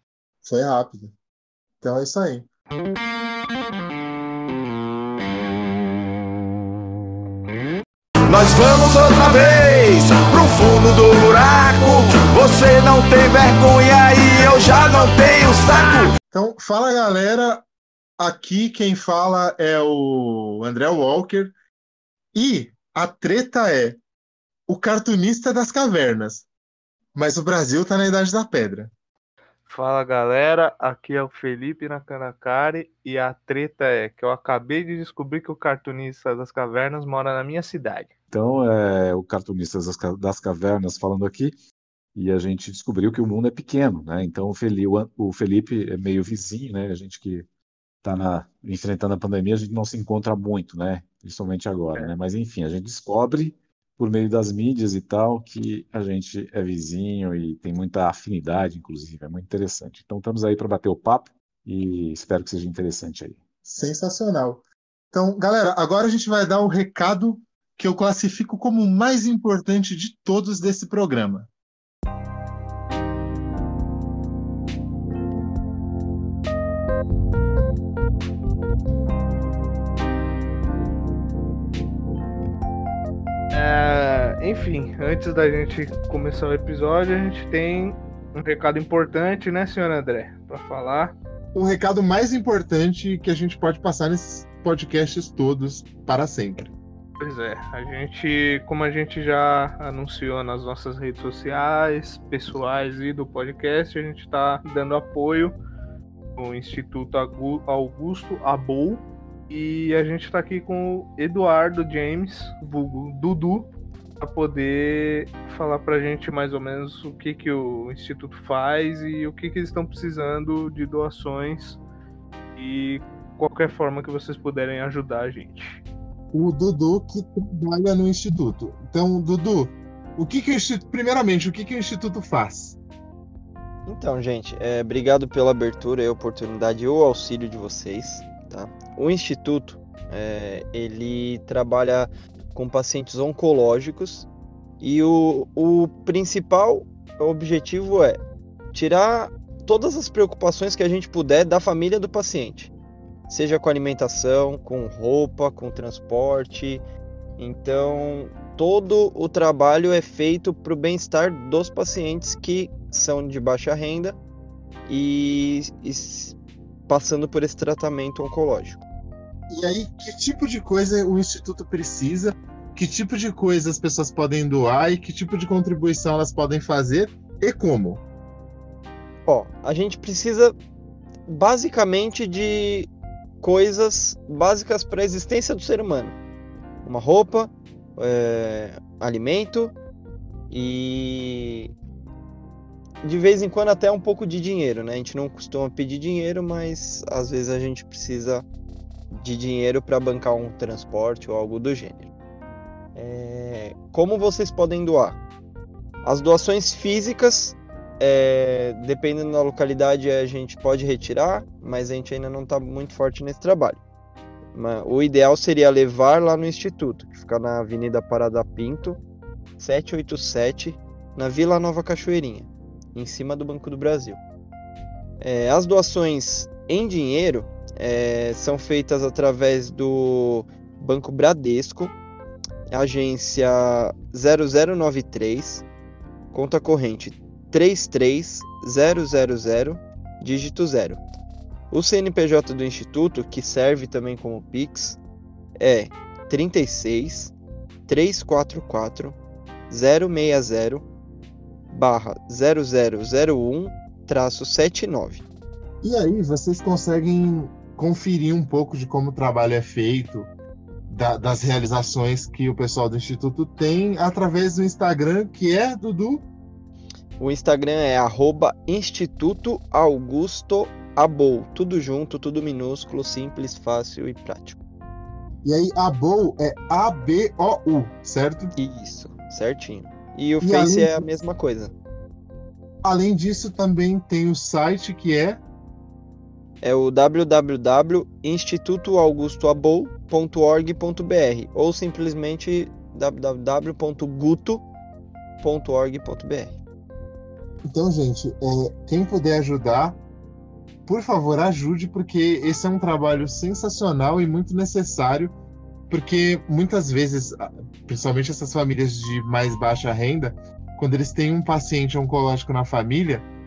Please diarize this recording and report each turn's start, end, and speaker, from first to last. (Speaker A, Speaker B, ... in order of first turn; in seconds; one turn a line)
Speaker A: 0.4-1.1
Speaker A: 1.8-2.5
Speaker B: 8.3-16.1
Speaker A: 16.3-17.6
Speaker A: 18.2-21.5
Speaker A: 22.3-24.0
Speaker A: 24.7-26.5
Speaker A: 27.1-28.9
Speaker C: 29.7-38.1
Speaker D: 38.3-41.5
Speaker D: 42.1-47.5
Speaker D: 48.0-63.4
Speaker A: 63.6-71.5
Speaker C: 83.5-91.1
Speaker A: 91.5-96.7
Speaker C: 97.2-105.5
Speaker C: 106.4-113.7
Speaker C: 114.2-121.8
Speaker C: 122.6-125.8
Speaker A: 126.3-132.8
Speaker E: 133.9-144.3
Speaker E: 144.8-148.2
Speaker E: 148.7-152.7
Speaker E: 153.3-156.8
Speaker E: 157.4-164.2
Speaker E: 164.9-166.4
Speaker E: 166.9-168.8
Speaker A: 169.5-178.0
Speaker E: 179.3-180.6
Speaker E: 181.3-182.9
Speaker E: 183.4-186.2
Speaker E: 186.8-189.7
Speaker E: 190.5-191.7
Speaker E: 193.0-198.5
Speaker E: 199.1-202.1
Speaker E: 202.9-205.2
Speaker E: 206.0-213.8
Speaker E: 214.5-219.0
Speaker E: 219.6-224.2
Speaker E: 225.2-231.9
Speaker E: 232.7-235.7
Speaker E: 236.3-241.0
Speaker E: 241.7-245.0
Speaker E: 245.6-247.3
Speaker E: 247.9-249.2
Speaker E: 249.7-250.9
Speaker E: 251.7-255.2
Speaker A: 255.8-260.3
Speaker A: 260.9-266.2
Speaker E: 267.2-274.6
Speaker A: 275.4-278.6
Speaker E: 278.6-281.8
Speaker A: 280.4-281.1
Speaker A: 282.8-285.4
Speaker E: 286.6-294.6
Speaker E: 295.4-296.6
Speaker A: 297.6-300.0
Speaker A: 300.9-305.4
Speaker A: 305.9-313.3